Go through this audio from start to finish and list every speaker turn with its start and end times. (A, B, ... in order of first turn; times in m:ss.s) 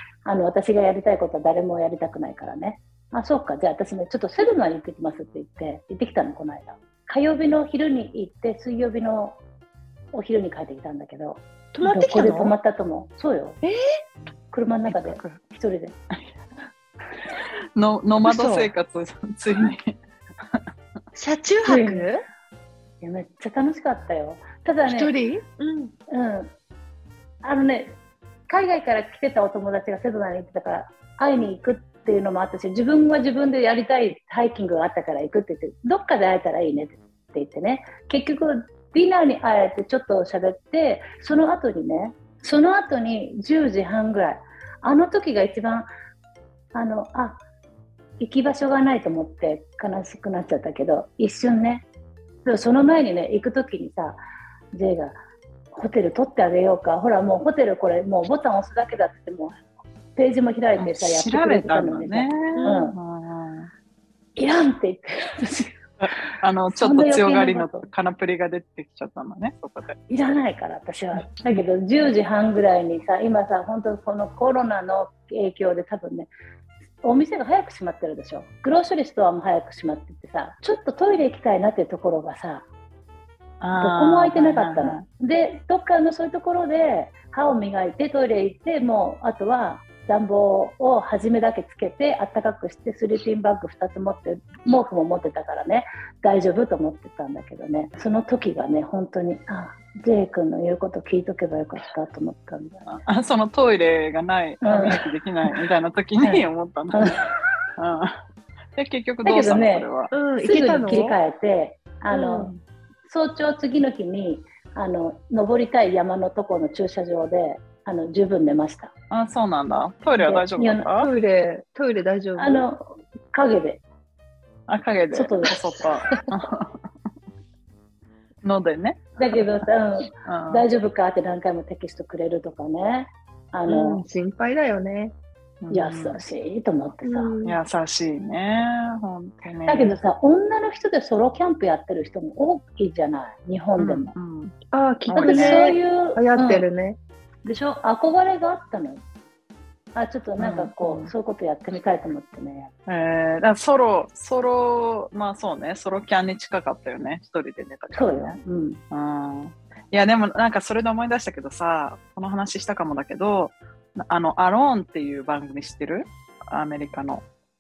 0:00.2-0:09.4 A
0:10.1-0:13.6 A
0:11.7-0:12.5 B
0:14.5-0:16.0 A
0:14.8-0:15.4 C
0:17.8-0:20.0 C
0:18.2-0:18.7 B
0:21.1-0:22.2 B
0:21.6-0:22.1 A
0:23.0-0:25.1 A
0:24.8-0:25.9 B
0:26.1-0:26.5 A
0:27.4-0:28.0 A
0:28.5-0:45.9 A
0:46.7-0:47.4 A
0:48.2-0:51.8 A
0:52.4-0:54.2 A
0:54.7-0:55.1 A
0:55.7-0:59.6 A
1:00.2-1:03.0 A
1:00.8-1:03.7 C
1:02.6-1:02.9 B
1:04.4-1:05.8 A
1:06.0-1:10.3 C
1:06.8-1:07.9 A
1:10.1-1:16.3 A
1:17.0-1:22.6 A
1:23.6-1:25.0 C
1:23.8-1:42.9 A
1:42.9-1:47.1 C
1:44.6-1:45.1 A
1:46.2-1:47.2 A
1:47.8-1:48.2 C
1:48.8-1:50.1 C
1:49.2-1:52.5 A
1:50.1-1:51.2 B
1:52.1-1:52.5 B
1:53.0-1:58.9 A
1:59.1-2:01.1 C
2:00.2-2:00.9 A
2:01.0-2:02.6 B
2:02.4-2:03.8 A
2:04.7-2:06.8 C
2:05.1-2:05.5 A
2:08.4-2:09.1 C
2:09.2-2:14.0 A
2:10.2-2:10.6 C
2:13.7-2:15.1 B
2:15.6-2:16.2 C
2:15.7-2:17.3 A
2:17.0-2:17.6 B
2:17.4-2:19.9 C
2:19.7-2:24.1 A
2:23.8-2:24.6 C
2:24.7-2:27.0 B
2:25.1-2:25.7 C
2:25.2-2:26.7 A
2:27.4-2:29.0 A
2:29.9-2:32.7 A
2:30.4-2:31.1 C
2:32.8-2:38.4 C
2:37.9-2:38.8 A
2:38.9-2:47.2 C